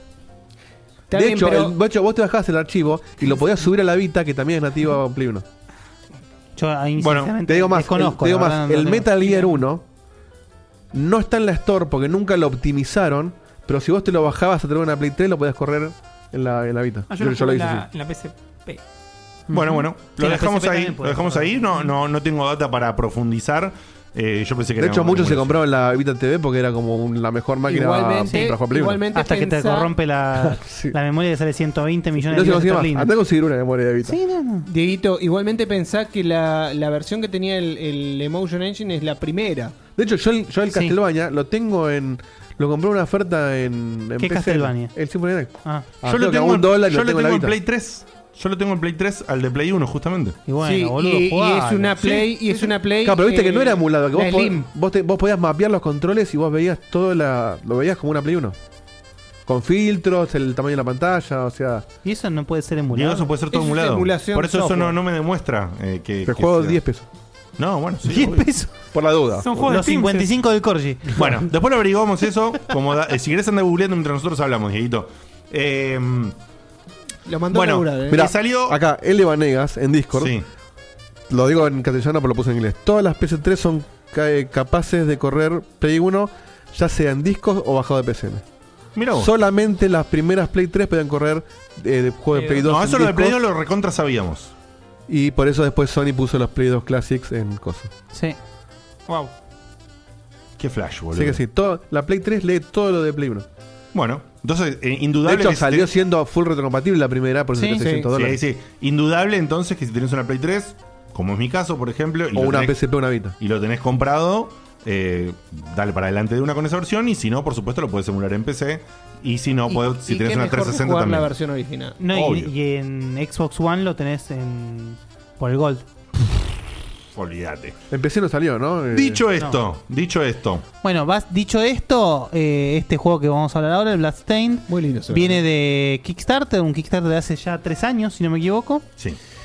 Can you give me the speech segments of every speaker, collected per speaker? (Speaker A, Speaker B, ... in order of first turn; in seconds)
Speaker A: 1.1-1.8, 27.7-29.9, 34.6-39.9, 50.6-54.7, 63.5-65.0, 77.3-78.2, 107.8-108.1, 119.7-122.0, 134.7-135.4
Speaker B: 1.1-5.5, 7.5-9.8, 10.9-17.9, 24.8-29.0, 30.4-31.0, 32.2-34.2, 40.0-47.6, 53.0-58.6, 59.5-61.9, 66.2-67.1, 68.9-69.5, 78.1-80.4, 81.3-88.4, 89.1-93.4, 95.1-97.9, 101.1-103.5, 105.2-108.4, 112.3-113.4, 127.9-129.2
Speaker C: 6.6-9.5, 19.5-21.7, 28.3-28.6, 29.1-33.1, 34.1-34.7, 44.2-44.9, 50.5-52.3, 62.0-63.3, 68.0-68.7, 69.6-71.2, 107.5-107.8, 122.0-125.9, 130.8-138.9
Speaker D: 7.0-7.4, 19.5-25.6, 46.0-50.4, 62.9-66.8, 67.6-68.5, 71.2-76.4, 77.5-78.8, 80.2-80.5, 89.0-89.3, 92.6-94.5, 100.6-101.4, 103.9-105.9, 108.1-112.8, 113.4-121.3, 122.1-122.5, 127.1-127.8, 128.9-130.7
Speaker E: 17.1-18.8, 69.4-70.3, 92.3-92.7, 99.1-99.3